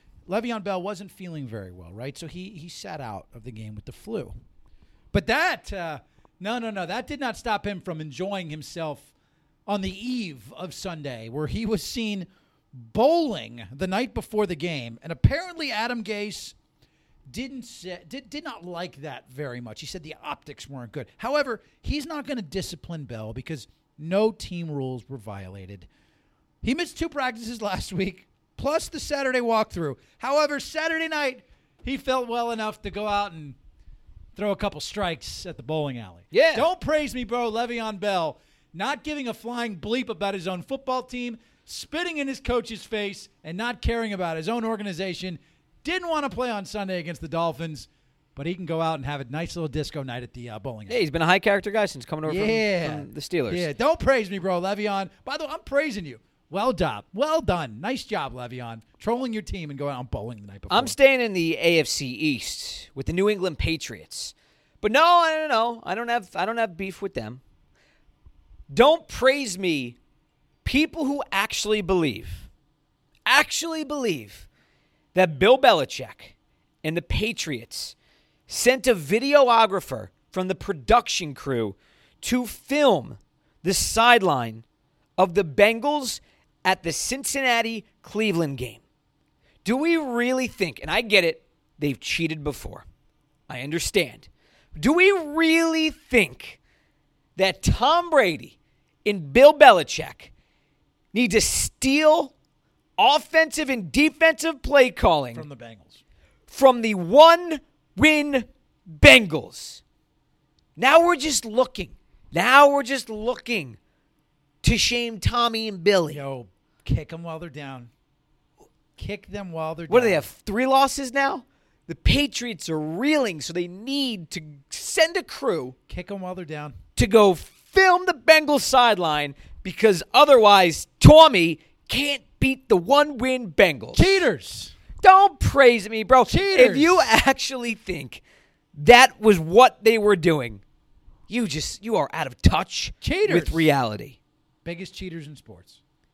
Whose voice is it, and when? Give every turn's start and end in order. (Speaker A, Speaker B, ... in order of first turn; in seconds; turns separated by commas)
Speaker A: 0.3-4.3, Speaker A: 5.1-9.1, Speaker A: 9.7-16.6, Speaker A: 17.3-25.9, Speaker A: 26.6-33.6, Speaker A: 34.4-51.0, Speaker B: 36.3-36.7, Speaker B: 50.9-53.6, Speaker A: 52.2-61.0, Speaker B: 60.7-67.4, Speaker B: 68.7-70.0, Speaker B: 70.6-72.5, Speaker B: 73.3-74.5, Speaker B: 75.1-77.9, Speaker B: 78.5-84.6, Speaker B: 85.2-88.8, Speaker B: 89.6-92.8, Speaker B: 93.5-96.6, Speaker B: 97.3-100.3, Speaker B: 101.1-102.3, Speaker B: 103.0-105.5, Speaker A: 105.3-106.0, Speaker B: 106.5-109.8, Speaker B: 110.8-113.8, Speaker B: 114.6-116.2, Speaker A: 116.1-117.9, Speaker A: 119.0-120.2, Speaker B: 119.9-125.7, Speaker A: 125.9-126.8, Speaker B: 127.0-134.0, Speaker A: 133.9-134.7, Speaker B: 135.0-138.2, Speaker A: 136.2-137.1, Speaker B: 138.7-140.6, Speaker B: 141.3-144.2, Speaker A: 143.0-143.7, Speaker A: 144.6-145.8